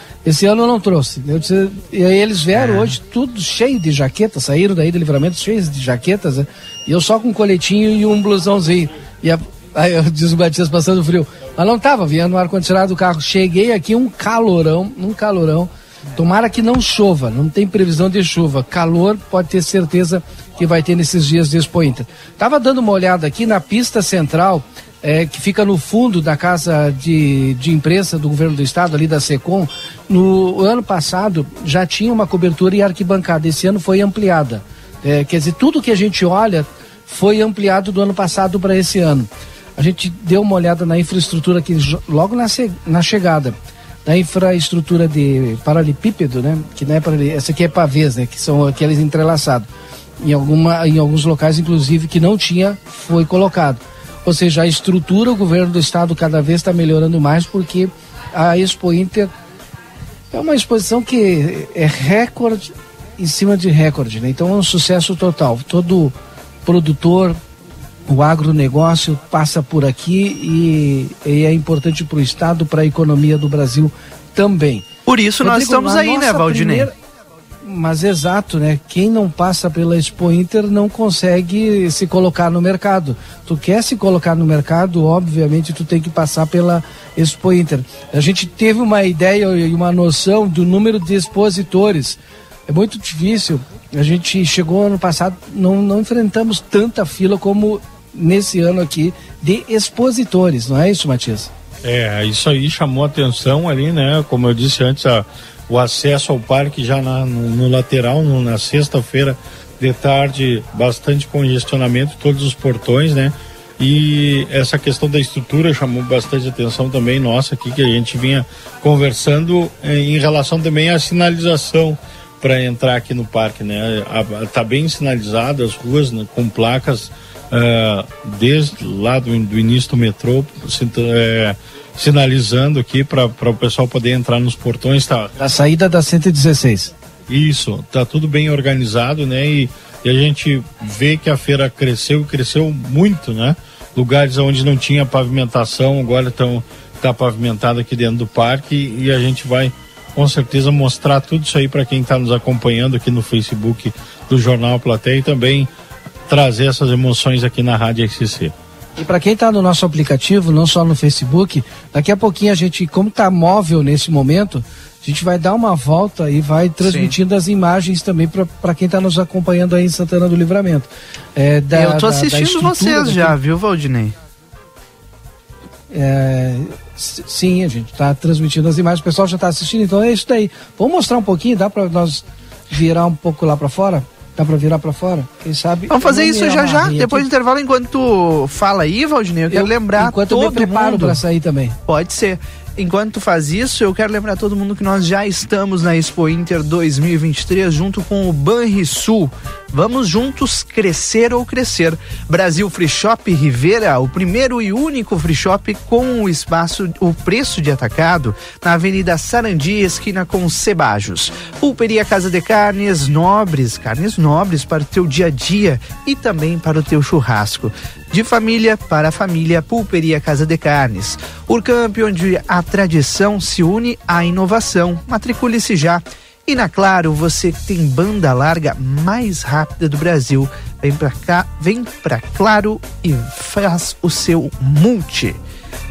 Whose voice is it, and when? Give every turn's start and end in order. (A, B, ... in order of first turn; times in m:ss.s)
0:00.2-0:49.7 A
0:02.5-0:02.9 B
0:50.2-0:59.3 A
1:00.3-1:07.4 A
1:08.1-1:14.8 A
1:15.1-1:16.9 B
1:15.4-1:16.9 A
1:17.6-1:41.5 A
1:41.8-2:15.3 C
2:15.4-2:16.9 A
2:17.3-2:35.7 C
2:36.3-2:38.5 C
2:39.0-2:53.4 A
2:46.8-2:47.1 B
2:51.7-2:54.1 B
2:55.9-3:07.3 A
3:05.9-3:11.2 B
3:09.5-3:11.8 A
3:11.9-3:55.4 B